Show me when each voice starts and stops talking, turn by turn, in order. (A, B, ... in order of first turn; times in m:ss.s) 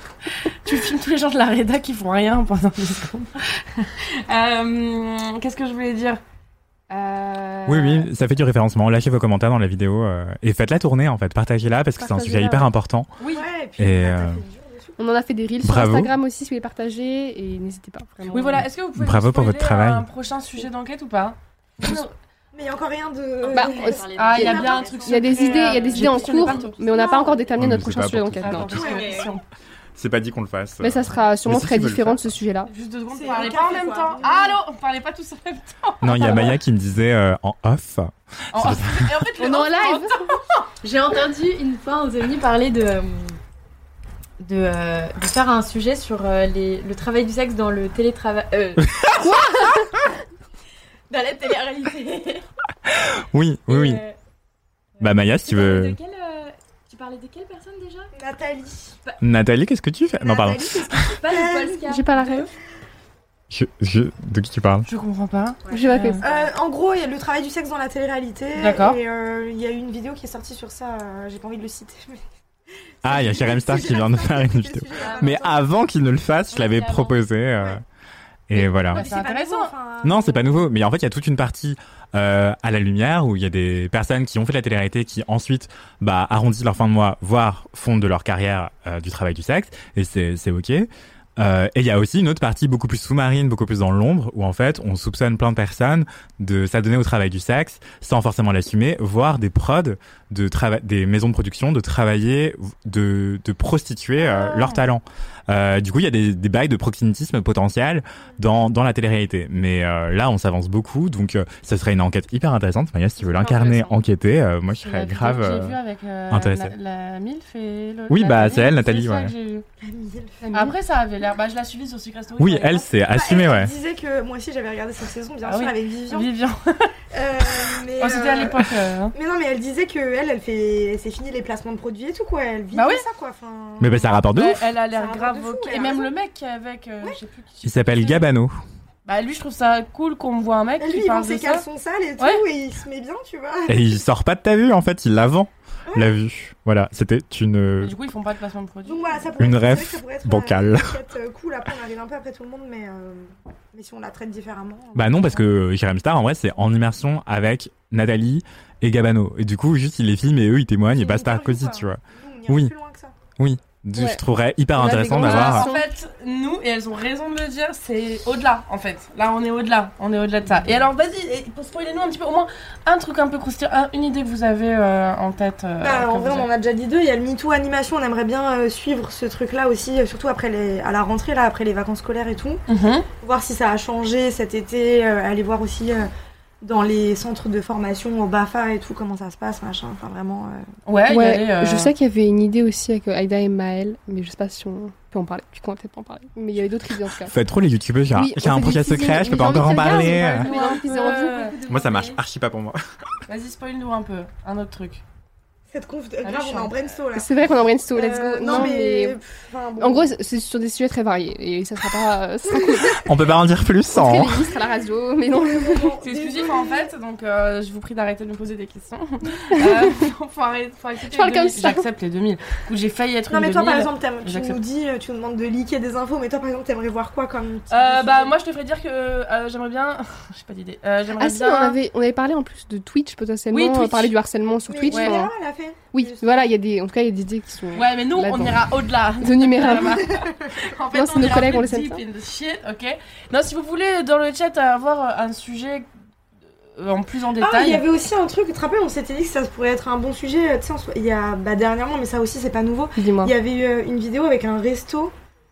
0:00.6-0:06.2 A
0:06.9-0:08.1 A
0:07.6-0:13.1 B
0:12.1-0:12.6 C
0:12.1-0:12.4 A
0:13.2-0:13.5 A
0:13.3-0:15.0 D
0:13.8-0:14.4 B
0:15.0-0:18.7 C
0:15.6-0:16.1 B
0:18.3-0:22.1 A
0:18.9-0:20.0 B
0:22.5-0:26.1 D
0:23.4-0:26.1 E
0:23.5-0:28.8 C
0:24.2-0:27.3 A
0:27.6-0:28.8 B
0:28.4-0:29.4 A
0:28.8-0:29.0 D
0:28.8-0:29.3 E
0:30.0-0:32.2 B
0:30.8-0:32.7 C
0:32.7-0:36.5 A
0:33.1-0:34.6 D
0:36.0-0:39.2 B
0:38.5-0:40.3 A
0:39.4-0:40.4 C
0:40.8-0:43.4 E
0:44.4-0:49.0 E
0:49.2-0:49.9 C
0:51.1-0:52.4 E
0:53.0-0:54.0 B
0:53.7-0:54.1 E
0:55.0-0:58.1 E
0:55.0-0:56.0 B
0:58.1-0:59.0 D
0:59.2-1:00.9 B
1:00.2-1:01.9 D
1:01.0-1:02.4 E
1:01.8-1:02.5 C
1:03.5-1:04.9 B
1:04.9-1:06.2 A
1:05.7-1:06.5 E
1:05.7-1:06.2 C
1:06.2-1:12.2 D
1:08.6-1:09.0 A
1:13.0-1:15.7 D
1:13.0-1:17.8 B
1:15.0-1:15.4 E
1:16.5-1:17.2 E
1:18.5-1:19.0 B
1:18.6-1:19.7 A
1:18.9-1:20.7 D
1:20.0-1:55.8 B
1:44.2-1:44.8 D
1:53.3-1:54.0 A
1:54.8-1:59.6 A
1:56.3-1:56.7 B
1:58.1-1:59.3 B
1:59.8-2:00.5 D
2:00.4-2:00.7 C
2:00.5-2:02.9 A
2:02.4-2:03.7 B
2:03.1-2:06.3 D
2:05.4-2:06.9 A
2:07.1-2:14.2 D
2:08.0-2:09.1 A
2:12.7-2:13.0 A
2:13.8-2:14.6 B
2:14.3-2:18.2 A
2:14.9-2:16.1 D
2:17.6-2:18.6 B
2:19.0-2:21.6 A
2:20.8-2:24.0 D
2:22.2-2:22.4 A
2:23.7-2:27.9 B
2:25.9-2:26.1 D
2:27.8-2:29.3 A
2:28.8-2:35.5 D
2:29.4-2:30.9 B
2:34.9-2:42.7 B
2:40.9-2:43.2 D
2:43.4-2:45.7 B
2:44.0-2:44.2 C
2:44.8-2:45.9 C
2:45.1-2:56.5 A
2:55.8-3:02.6 D
3:02.7-3:03.1 A
3:03.2-3:06.1 D
3:06.6-3:10.6 D
3:10.8-3:11.9 A
3:11.1-3:17.3 C
3:17.2-3:20.5 B
3:18.1-3:21.6 C
3:19.5-3:21.6 A
3:20.4-3:22.2 E
3:21.6-3:22.8 B
3:23.3-3:25.0 A
3:25.7-3:30.1 D
3:26.2-3:26.9 A
3:27.1-3:29.2 C
3:28.4-3:28.7 A
3:29.8-3:33.1 C
3:33.0-3:34.5 B
3:33.9-3:36.0 C
3:34.5-3:36.9 D
3:36.0-3:44.6 A
3:39.5-3:39.9 C
3:41.1-3:41.8 C
3:43.3-3:48.3 D
3:47.7-3:51.8 A
3:51.2-3:55.3 C
3:53.5-3:54.2 A
3:54.7-3:56.5 D
3:54.9-3:55.2 A
3:55.9-3:58.7 C
3:57.7-4:05.9 A
3:59.2-4:00.0 C
3:59.6-4:00.5 D
4:00.9-4:02.0 C
4:06.8-4:07.8 A
4:07.4-4:15.1 D
4:13.0-4:13.3 C